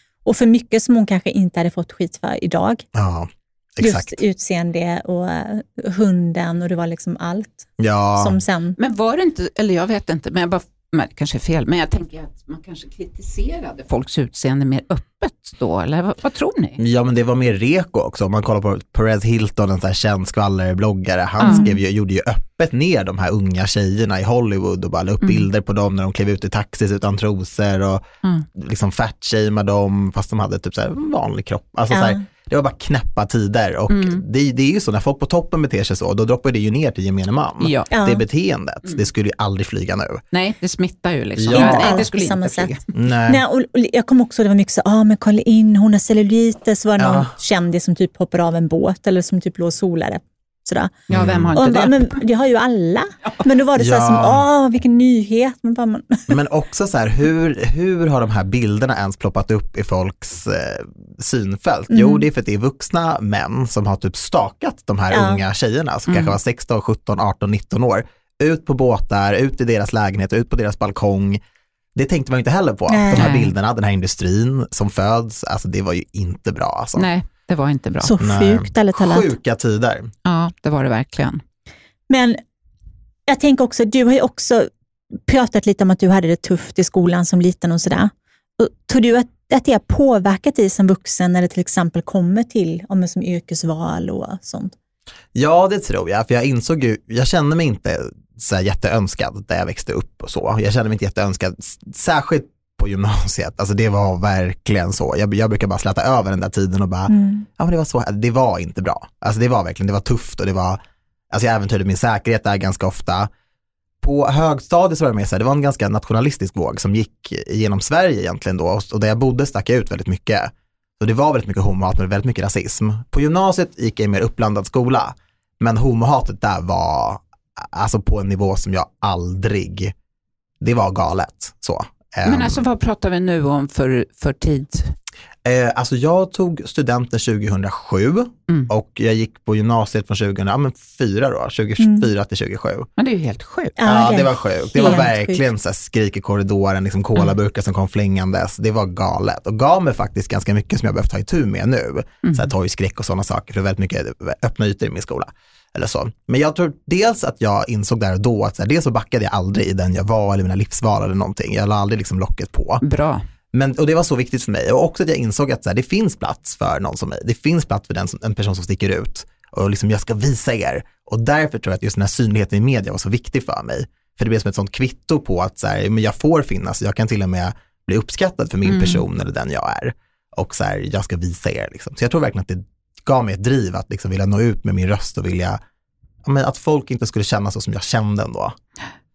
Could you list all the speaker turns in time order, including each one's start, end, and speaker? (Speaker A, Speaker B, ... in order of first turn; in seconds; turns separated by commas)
Speaker A: 0.2-2.8, Speaker B: 2.9-4.2, Speaker A: 3.8-8.8, Speaker B: 7.8-8.4, Speaker C: 8.8-16.8, Speaker B: 16.8-28.0, Speaker C: 21.4-21.7, Speaker A: 21.4-21.8, Speaker B: 28.5-40.2, Speaker A: 31.9-32.2, Speaker C: 33.9-34.2, Speaker C: 37.6-37.9, Speaker A: 37.9-38.2, Speaker C: 40.3-42.8, Speaker B: 41.4-42.0, Speaker A: 41.5-42.7, Speaker B: 42.9-43.4, Speaker A: 43.3-51.0, Speaker B: 47.0-47.3, Speaker B: 51.1-51.6, Speaker C: 51.1-52.2, Speaker A: 51.5-56.3, Speaker B: 53.7-54.5, Speaker B: 56.3-71.4, Speaker A: 61.9-62.2, Speaker A: 65.1-65.4, Speaker C: 66.1-66.3, Speaker B: 71.9-77.1, Speaker A: 72.9-73.3, Speaker C: 73.1-73.5, Speaker C: 77.0-78.1, Speaker A: 78.0-79.3, Speaker B: 78.2-80.1, Speaker C: 80.2-81.4, Speaker A: 82.1-82.4, Speaker A: 83.3-84.7, Speaker A: 85.2-94.7, Speaker B: 95.3-110.8, Speaker A: 107.1-107.5, Speaker B: 111.3-113.3, Speaker B: 114.0-129.9, Speaker B: 130.6-132.6, Speaker C: 132.2-134.9, Speaker B: 135.4-142.9, Speaker A: 141.8-142.1, Speaker C: 143.0-143.8, Speaker A: 143.8-145.4, Speaker B: 143.8-162.8, Speaker C: 144.8-145.1, Speaker C: 152.2-152.5, Speaker C: 162.8-163.2, Speaker B: 163.5-185.6, Speaker C: 178.6-179.0, Speaker B: 186.2-188.5